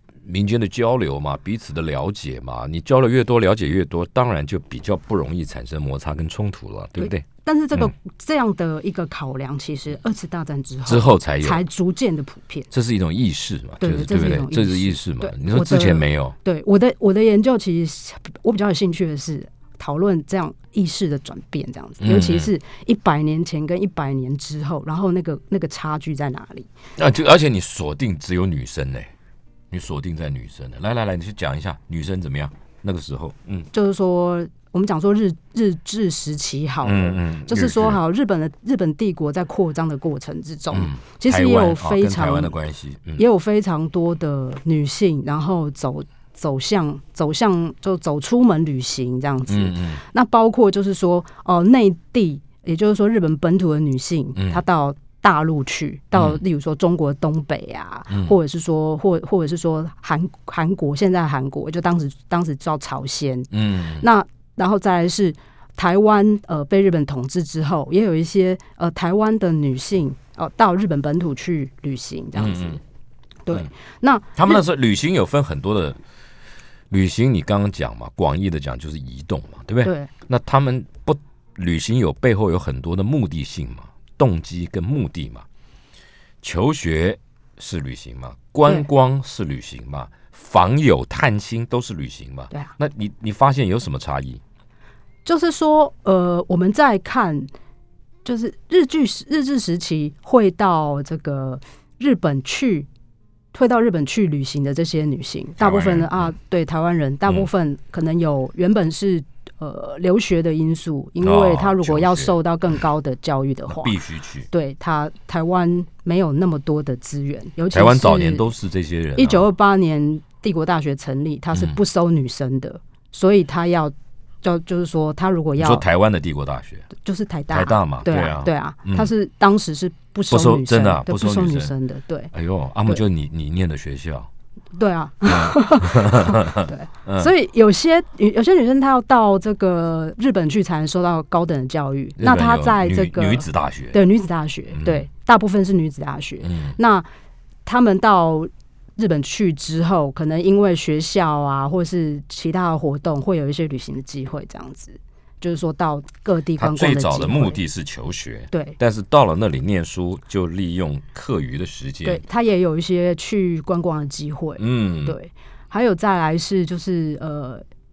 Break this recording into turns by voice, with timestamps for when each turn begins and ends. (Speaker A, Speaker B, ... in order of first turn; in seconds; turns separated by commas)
Speaker A: 0.2-7.9, Speaker B: 7.0-12.7, Speaker A: 10.8-11.6, Speaker A: 12.7-16.4, Speaker B: 13.8-26.7, Speaker A: 22.0-22.5, Speaker A: 27.0-29.1, Speaker A: 29.7-33.7, Speaker B: 33.7-42.5, Speaker A: 36.8-38.0, Speaker A: 40.7-43.2, Speaker B: 43.2-72.8, Speaker A: 49.5-50.0, Speaker A: 54.4-54.6, Speaker A: 56.1-56.4, Speaker A: 58.1-58.3, Speaker A: 63.5-64.0, Speaker A: 72.3-72.8, Speaker B: 73.5-74.6, Speaker A: 74.3-76.0, Speaker A: 76.9-85.5, Speaker B: 79.8-80.1, Speaker A: 86.4-94.4, Speaker B: 95.2-97.5, Speaker B: 98.2-102.9, Speaker B: 103.5-114.0, Speaker A: 105.6-106.3, Speaker A: 111.2-112.3, Speaker A: 113.7-114.5, Speaker B: 114.5-118.5, Speaker A: 117.7-119.5, Speaker B: 119.2-125.8, Speaker A: 121.5-121.8, Speaker A: 125.6-126.9, Speaker B: 127.0-132.3, Speaker A: 127.5-129.1, Speaker A: 130.3-131.7, Speaker A: 132.3-134.3, Speaker B: 134.8-147.1, Speaker A: 135.2-137.3, Speaker A: 142.2-144.0, Speaker A: 144.7-145.1, Speaker A: 146.4-146.8, Speaker B: 147.7-157.6, Speaker A: 156.6-162.2, Speaker B: 158.5-158.8, Speaker B: 162.0-167.6, Speaker A: 164.6-165.2